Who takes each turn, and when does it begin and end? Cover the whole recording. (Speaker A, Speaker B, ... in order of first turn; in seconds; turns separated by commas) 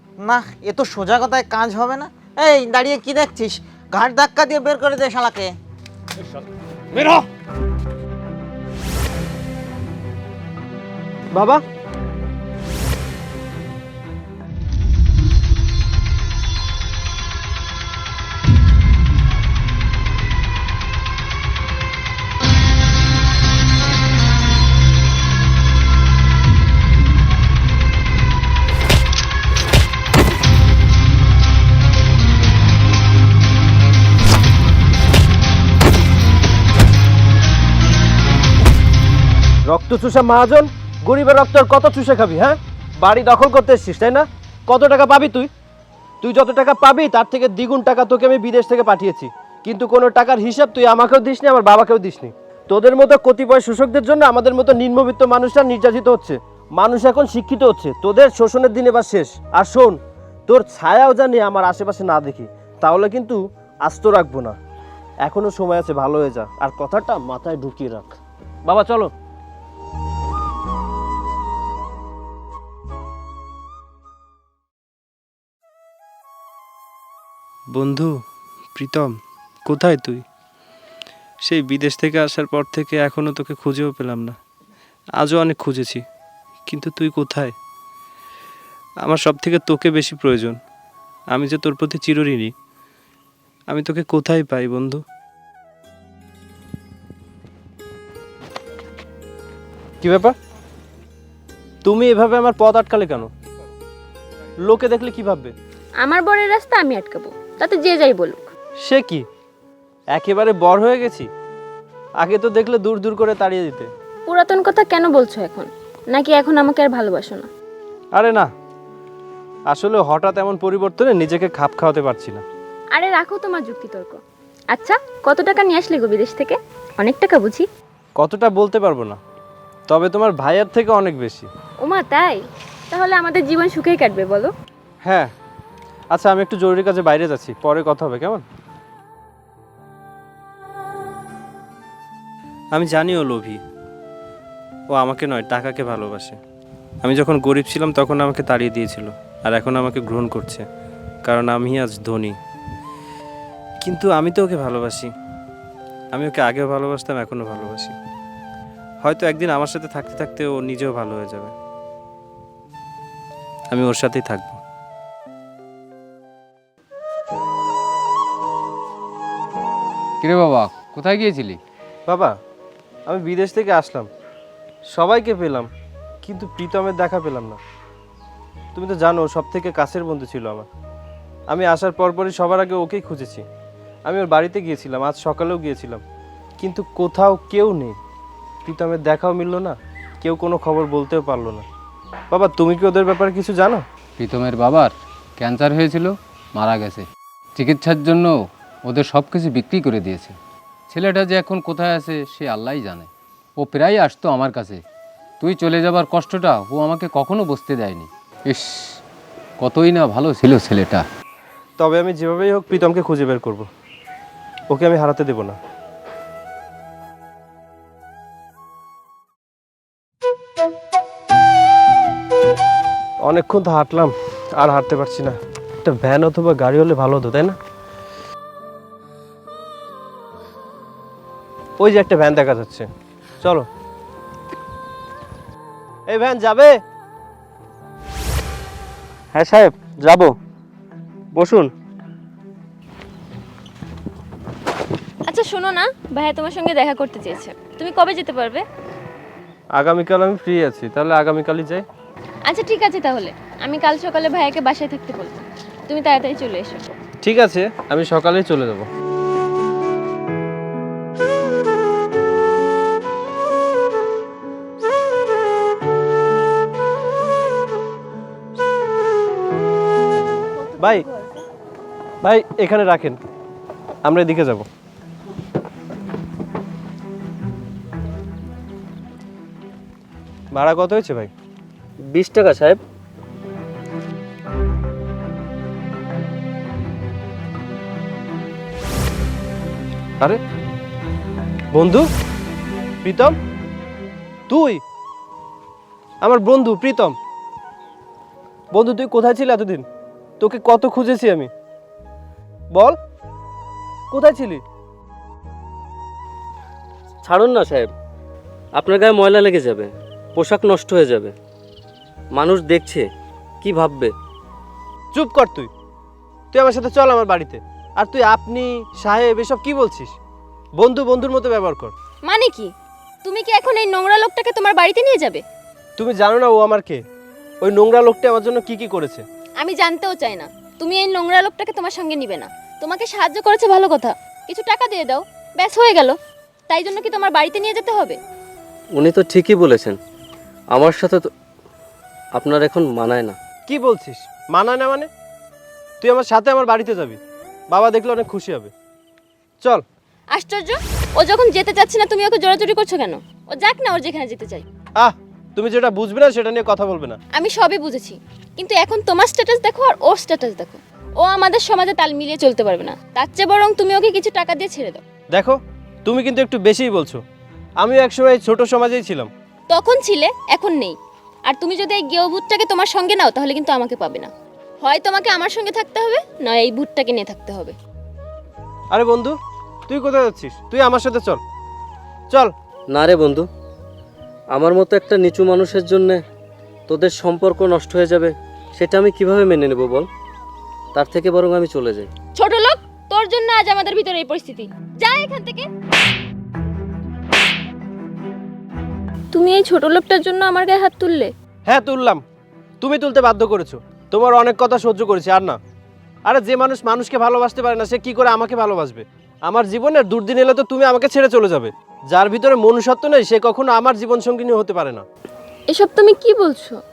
Speaker A: 0.2-5.5, Speaker B: 11.3-11.6, Speaker B: 39.7-45.5, Speaker B: 46.2-64.6, Speaker B: 65.2-68.1, Speaker B: 68.7-69.1, Speaker B: 77.7-78.1, Speaker B: 78.8-79.1, Speaker B: 79.7-80.2, Speaker B: 81.5-84.4, Speaker B: 85.2-86.0, Speaker B: 86.7-87.5, Speaker B: 89.0-90.6, Speaker B: 91.3-92.5, Speaker B: 93.7-95.0, Speaker B: 100.0-100.3, Speaker B: 101.8-103.3, Speaker B: 104.6-105.5, Speaker C: 106.0-108.5, Speaker B: 108.8-109.2, Speaker B: 110.1-111.3, Speaker B: 112.2-113.9, Speaker C: 114.3-117.5, Speaker B: 118.1-118.5, Speaker B: 119.7-122.4, Speaker C: 122.9-124.2, Speaker C: 124.7-127.6, Speaker B: 128.2-129.2, Speaker B: 129.9-131.5, Speaker C: 131.8-134.5, Speaker B: 135.0-135.3, Speaker B: 136.1-138.4, Speaker B: 142.7-143.6, Speaker B: 144.9-146.4, Speaker B: 147.0-150.6, Speaker B: 151.2-152.4, Speaker B: 153.8-155.1, Speaker B: 156.1-158.0, Speaker B: 159.0-161.5, Speaker B: 163.7-164.6, Speaker D: 170.2-171.6, Speaker B: 172.1-172.3, Speaker B: 173.1-174.1, Speaker B: 174.9-175.7, Speaker B: 176.2-177.6, Speaker B: 178.8-180.7, Speaker B: 181.5-183.4, Speaker B: 184.1-186.0, Speaker B: 186.6-188.0, Speaker B: 188.6-191.7, Speaker B: 192.3-193.8, Speaker D: 194.2-198.3, Speaker D: 198.9-200.4, Speaker D: 200.9-204.8, Speaker D: 205.4-209.0, Speaker D: 209.6-211.0, Speaker B: 211.8-213.7, Speaker B: 214.7-215.6, Speaker B: 223.2-227.6, Speaker B: 231.8-232.9, Speaker B: 233.4-233.7, Speaker B: 236.1-236.7, Speaker E: 239.3-240.3, Speaker C: 245.2-248.6, Speaker B: 249.8-251.8, Speaker C: 252.5-256.9, Speaker B: 257.2-258.9, Speaker B: 270.8-271.0, Speaker B: 272.2-273.2, Speaker B: 274.0-274.7, Speaker B: 280.5-281.3, Speaker E: 282.1-282.8, Speaker B: 291.7-292.1, Speaker B: 293.0-293.4, Speaker B: 294.5-294.8, Speaker B: 296.2-297.1, Speaker B: 298.7-299.9, Speaker B: 300.4-301.5, Speaker B: 304.1-304.6, Speaker E: 307.2-307.9, Speaker E: 308.8-311.3, Speaker E: 312.3-313.1, Speaker E: 313.6-314.1, Speaker B: 315.1-315.7, Speaker B: 316.5-320.1, Speaker B: 320.8-321.9, Speaker C: 322.2-322.7, Speaker C: 323.2-325.4, Speaker B: 326.0-327.0, Speaker B: 327.6-329.2, Speaker C: 329.6-336.2, Speaker C: 336.7-338.2, Speaker E: 339.0-340.0, Speaker E: 340.7-341.3, Speaker E: 342.4-343.4, Speaker B: 343.7-345.1, Speaker B: 346.0-347.2, Speaker B: 347.7-348.7, Speaker C: 350.3-354.6, Speaker B: 355.0-357.2, Speaker C: 357.3-365.0, Speaker B: 365.3-367.2, Speaker B: 367.8-369.3, Speaker C: 369.7-374.3, Speaker C: 374.8-377.8, Speaker B: 378.9-379.4, Speaker B: 379.9-381.4, Speaker E: 382.9-383.5, Speaker E: 384.5-386.2, Speaker E: 386.9-390.1, Speaker E: 391.0-392.0, Speaker C: 392.4-395.7, Speaker C: 399.3-401.3, Speaker B: 401.6-402.2, Speaker B: 402.8-405.6, Speaker B: 406.2-415.0, Speaker C: 415.7-416.8